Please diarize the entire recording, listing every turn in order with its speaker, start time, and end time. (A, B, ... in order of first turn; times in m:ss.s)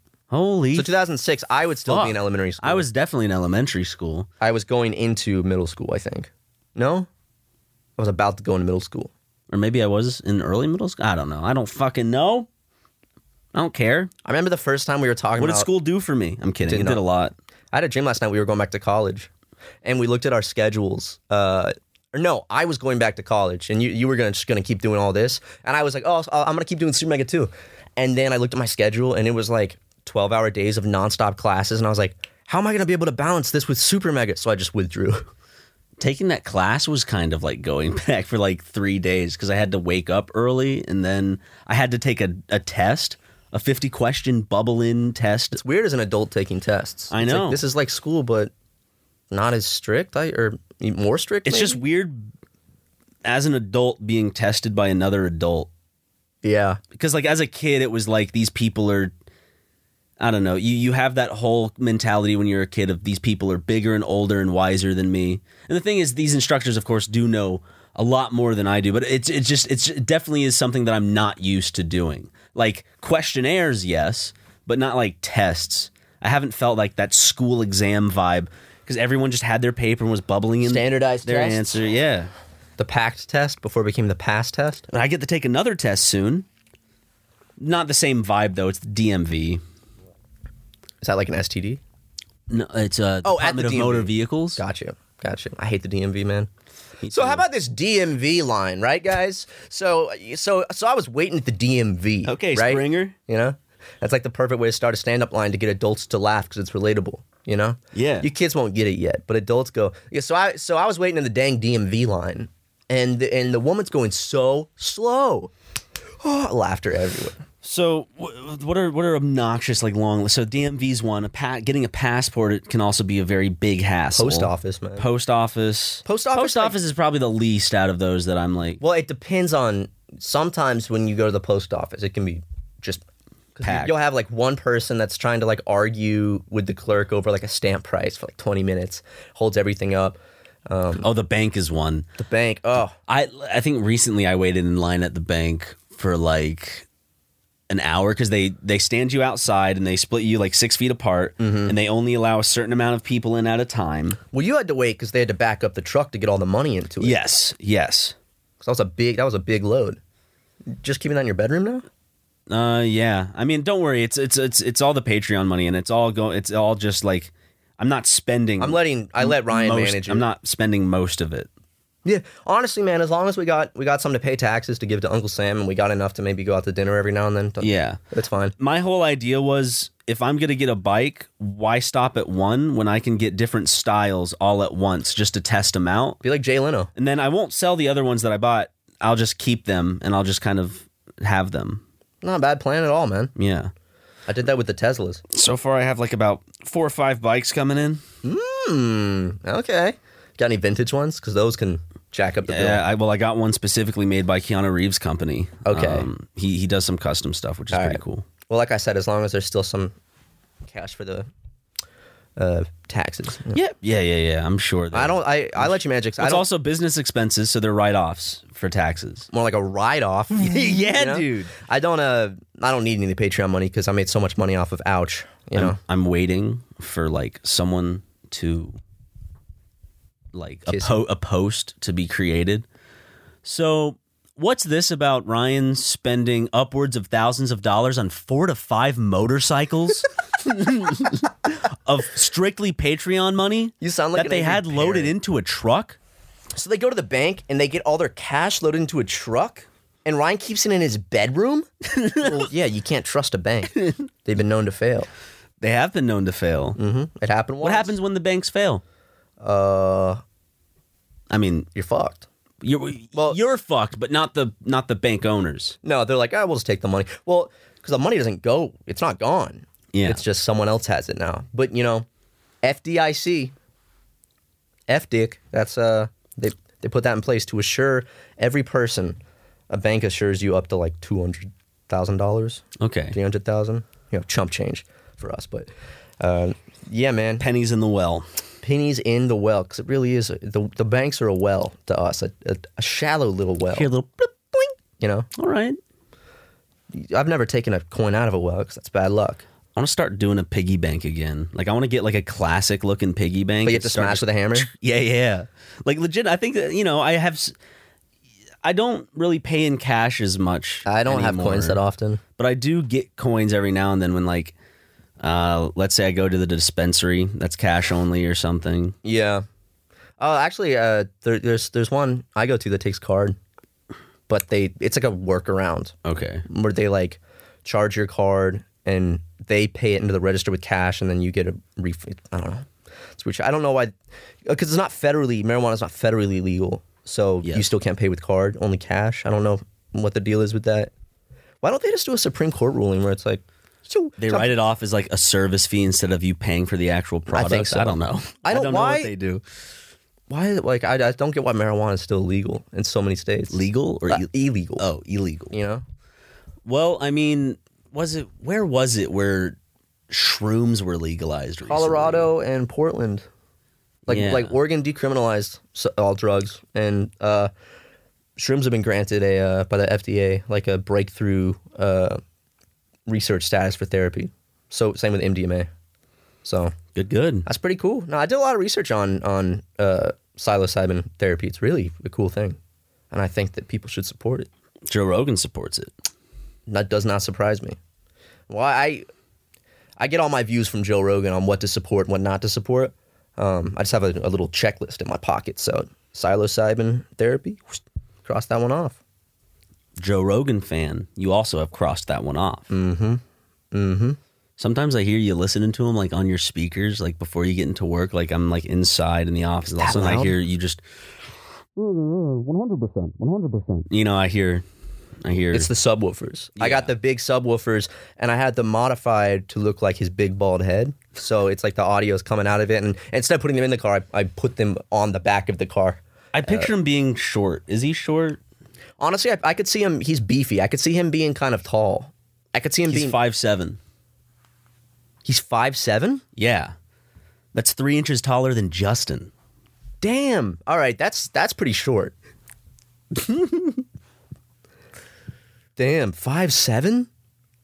0:00.3-0:00.9 A
0:00.7-0:02.8 B
0:01.9-0:04.3 A
0:04.4-0:07.1 B
0:08.0-0:09.1 B
0:09.5-0:12.5 A
0:13.5-0:14.1 A
0:14.2-0:15.7 B
0:15.4-0:17.3 A
0:16.6-0:17.0 B
0:17.7-0:19.3 B
0:19.8-0:35.3 B
0:36.0-0:45.6 A
0:45.5-0:48.5 B
0:47.1-0:47.6 A
0:49.3-0:51.8 B
0:51.5-0:52.3 A
0:53.2-0:55.7 A
0:56.4-0:56.8 B
0:57.0-0:59.1 A
1:00.2-1:22.3 A
1:20.6-1:21.8 B
1:22.8-1:24.9 B
1:24.9-1:26.5 A
1:27.6-1:29.6 A
1:31.0-1:31.8 B
1:32.5-1:34.6 A
1:33.2-1:36.5 B
1:37.0-1:37.4 A
1:37.1-1:55.5 B
1:42.2-1:43.2 A
1:47.9-1:48.3 A
1:56.2-1:57.4 B
1:57.6-2:08.8 A
2:04.2-2:05.1 B
2:06.0-2:06.8 B
2:08.8-2:13.0 B
2:13.6-2:21.1 B
2:13.6-2:13.9 A
2:21.0-2:22.1 A
2:22.2-2:22.9 B
2:23.1-2:26.8 A
2:27.7-2:34.2 A
2:31.4-2:31.8 B
2:34.3-2:37.2 B
2:37.0-2:38.2 A
2:38.6-2:40.0 B
2:40.7-2:41.9 B
2:42.5-2:51.5 A
2:48.6-2:50.3 B
2:52.0-2:58.6 B
2:57.6-2:58.0 A
2:58.6-3:06.2 A
3:06.2-3:06.9 B
3:07.0-3:11.8 A
3:12.2-3:13.3 B
3:13.4-3:13.7 A
3:14.3-3:15.2 B
3:15.3-3:18.0 A
3:18.2-3:22.8 B
3:22.5-3:28.2 A
3:25.7-3:26.1 B
3:27.7-3:30.0 B
3:30.6-3:31.3 B
3:32.4-3:33.6 B
3:33.5-3:39.3 A
3:34.9-3:36.5 B
3:39.3-3:45.8 B
3:40.4-3:41.5 A
3:45.6-3:48.8 A
3:50.3-3:52.6 A
3:50.7-3:51.0 B
3:53.4-4:06.0 A
4:03.8-4:05.1 B
4:06.6-4:11.7 B
4:11.9-4:12.5 A
4:12.2-4:13.7 B
4:14.2-4:15.1 B
4:15.6-4:16.8 A
4:16.8-4:18.0 B
4:17.6-4:18.8 A
4:19.4-4:20.2 B
4:21.3-4:21.7 A
4:21.8-4:22.3 B
4:22.6-4:25.8 A
4:25.8-4:32.1 B
4:29.9-4:30.2 A
4:32.6-4:33.5 B
4:34.9-4:47.4 B
4:42.8-4:43.2 A
4:47.4-4:48.3 A
4:48.6-4:53.9 B
4:53.7-4:54.7 A
4:55.0-4:55.3 B
4:55.4-4:55.8 A
4:56.9-4:59.4 B
4:59.8-5:07.5 A
5:03.6-5:04.7 B
5:08.6-5:11.8 A
5:10.9-5:12.2 B
5:12.4-5:14.5 A
5:15.2-5:19.0 A
5:19.0-5:19.4 B
5:20.2-5:23.4 B
5:24.3-5:26.0 B
5:26.0-5:26.4 A
5:26.5-5:33.9 B
5:34.4-5:40.9 B
5:41.6-5:44.5 B
5:44.2-5:49.4 A
5:47.3-5:49.1 B
5:50.3-5:54.9 B
5:53.5-5:54.3 A
5:54.8-5:55.5 A
5:55.5-5:55.8 B
5:56.7-5:59.6 A
6:00.1-6:02.3 A
6:01.7-6:03.3 B
6:04.1-6:04.5 A
6:04.1-6:07.5 B
6:08.4-6:12.2 B
6:13.1-6:15.7 B
6:16.4-6:16.7 B
6:17.0-6:17.5 A
6:17.4-6:22.6 B
6:23.1-6:24.5 B
6:24.9-6:25.9 A
6:26.7-6:27.8 B
6:28.5-6:29.0 B
6:30.0-6:39.0 B
6:40.0-6:42.7 A
6:42.7-6:44.2 B
6:44.6-6:50.8 A
6:49.7-6:50.4 B
6:51.8-6:54.6 A
6:55.2-6:55.7 A
6:55.5-7:06.7 B
6:56.6-6:56.9 A
7:06.3-7:08.4 A
7:09.0-7:13.2 B
7:12.9-7:13.8 A
7:15.2-7:16.2 B
7:16.4-7:16.7 A
7:17.5-7:19.3 A
7:20.0-7:22.2 B
7:23.2-7:23.8 A
7:25.8-7:27.1 B